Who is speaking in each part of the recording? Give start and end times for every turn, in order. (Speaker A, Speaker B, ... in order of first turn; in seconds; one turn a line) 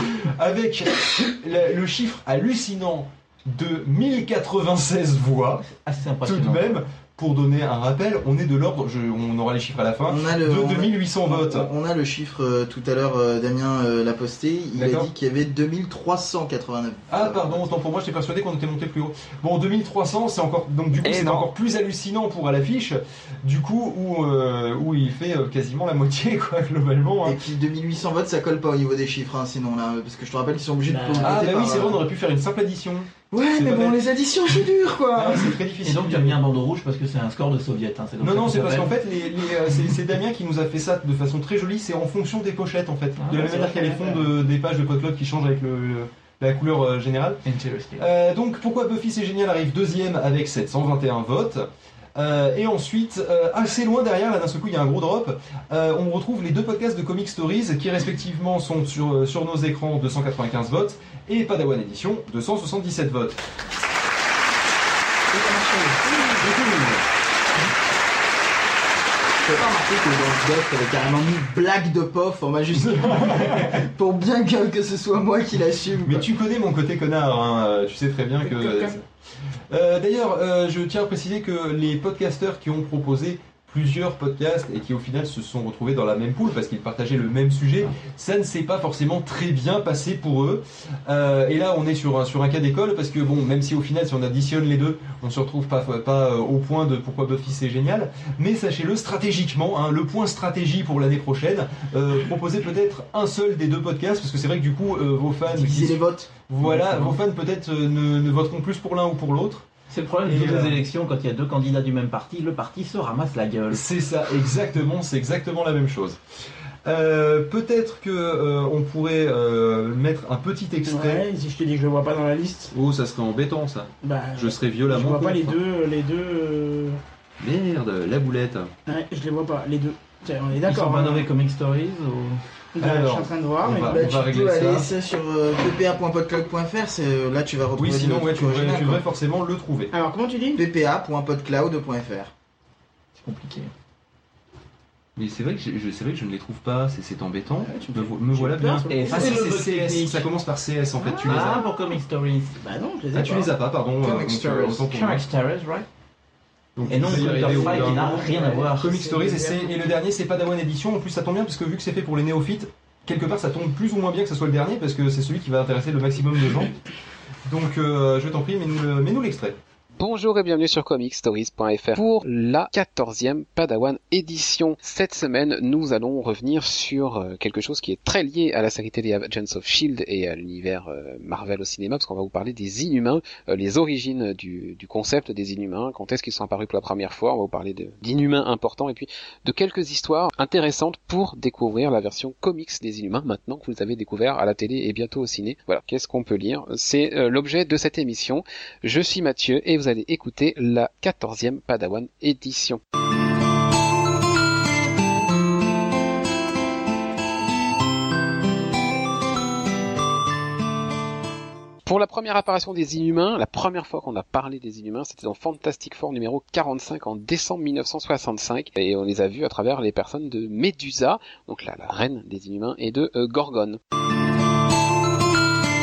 Speaker A: 0.4-5.6
Speaker B: 5.7-6.7
Speaker A: 6.2-11.7
Speaker C: 10.1-17.6
Speaker A: 14.8-15.1
Speaker A: 17.1-27.4
Speaker C: 27.2-32.0
Speaker D: 30.9-31.4
Speaker A: 31.2-34.0
Speaker C: 33.3-35.5
Speaker A: 35.1-36.4
Speaker B: 35.8-38.9
Speaker A: 38.2-47.4
Speaker B: 43.2-44.3
Speaker B: 47.4-48.0
Speaker A: 48.0-51.6
Speaker A: 52.1-63.4
Speaker C: 69.4-76.2
Speaker A: 72.7-73.8
Speaker A: 76.0-79.0
Speaker D: 78.4-79.0
Speaker A: 79.7-109.7
Speaker C: 105.5-106.3
Speaker B: 106.7-107.1
Speaker B: 109.9-113.8
Speaker A: 110.2-110.8
Speaker A: 113.7-116.2
Speaker A: 116.8-121.2
Speaker D: 120.8-122.7
Speaker A: 122.7-125.6
Speaker D: 124.0-127.0
Speaker A: 127.4-128.7
Speaker D: 128.8-131.3
Speaker B: 130.6-132.4
Speaker D: 132.7-134.0
Speaker A: 132.8-134.9
Speaker C: 133.9-139.0
Speaker A: 137.8-139.9
Speaker D: 139.9-140.6
Speaker C: 140.5-142.3
Speaker B: 143.2-143.7
Speaker A: 145.2-151.6
Speaker B: 147.7-148.0
Speaker D: 148.3-150.2
Speaker B: 148.8-149.6
Speaker D: 151.0-151.8
Speaker B: 151.2-152.5
Speaker D: 152.6-153.5
Speaker A: 153.1-155.2
Speaker B: 154.0-155.9
Speaker A: 156.8-166.7
Speaker B: 156.9-158.9
Speaker D: 157.3-159.7
Speaker A: 167.5-169.6
Speaker E: 170.0-202.8
Speaker E: 211.8-223.8